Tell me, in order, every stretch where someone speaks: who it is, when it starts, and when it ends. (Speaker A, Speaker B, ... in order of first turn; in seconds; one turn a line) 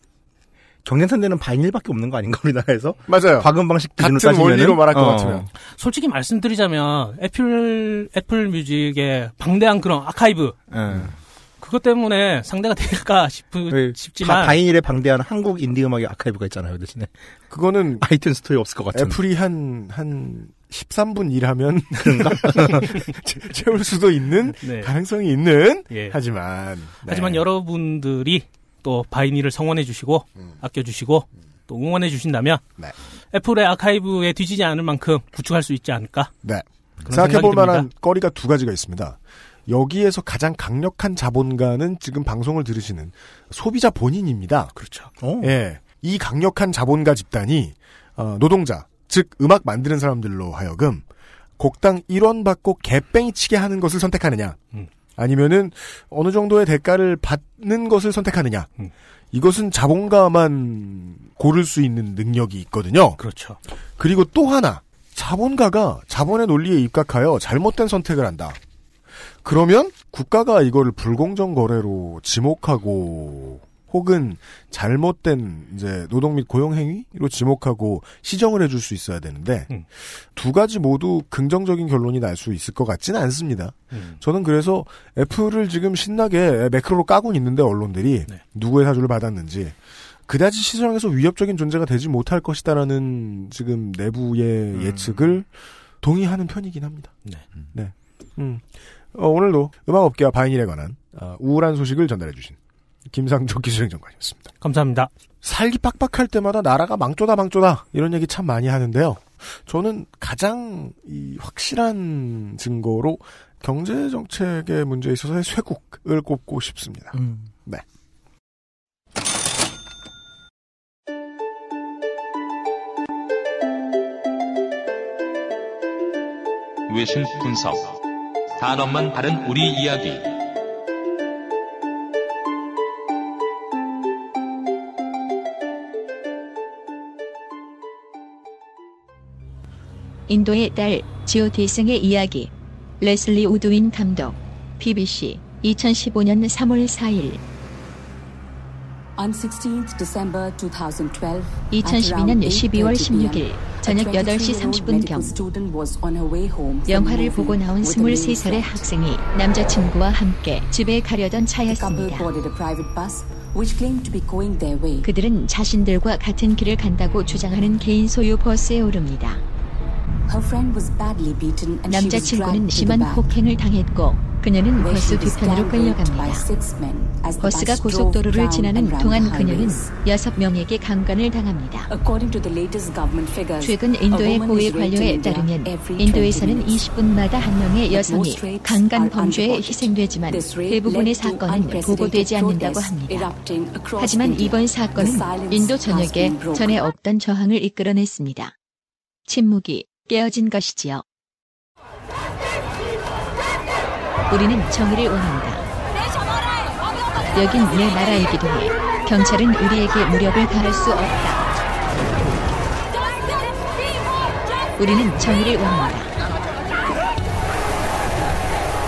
Speaker A: 0.8-5.5
Speaker B: 3.1-5.5
Speaker C: 5.7-10.6
Speaker A: 10.7-11.1
Speaker C: 11.6-14.6
Speaker A: 13.7-17.1
Speaker B: 17.5-18.1
Speaker A: 18.0-19.2
Speaker B: 18.9-27.4
Speaker A: 22.0-23.0
Speaker C: 24.6-24.9
Speaker C: 27.1-32.6
Speaker C: 33.3-36.3
Speaker B: 36.4-44.7
Speaker C: 37.0-37.9
Speaker A: 44.8-45.5
Speaker B: 45.4-51.0
Speaker B: 51.6-54.6
Speaker B: 55.1-58.7
Speaker B: 59.3-63.2
Speaker C: 63.2-63.6
Speaker B: 64.0-68.6
Speaker B: 69.4-95.5
Speaker C: 83.9-84.2
Speaker A: 94.7-95.3
Speaker B: 96.0-97.2
Speaker B: 97.7-104.5
Speaker C: 104.6-105.1
Speaker B: 105.4-117.1
Speaker A: 117.1-117.5
Speaker D: 126.9-128.0
Speaker D: 128.6-130.3
Speaker E: 140.3-147.4
Speaker F: 149.2-158.9
Speaker E: 151.7-155.4
Speaker E: 156.9-162.3
Speaker F: 161.7-165.1
Speaker E: 165.0-169.4
Speaker F: 170.3-173.3
Speaker E: 171.9-176.4
Speaker F: 174.8-180.0
Speaker E: 177.4-181.9
Speaker F: 181.9-186.8
Speaker E: 183.6-193.3
Speaker F: 187.9-196.9
Speaker E: 194.0-198.5
Speaker E: 199.3-201.0
Speaker E: 204.3-205.7
Speaker E: 207.3-211.4
Speaker E: 214.8-216.1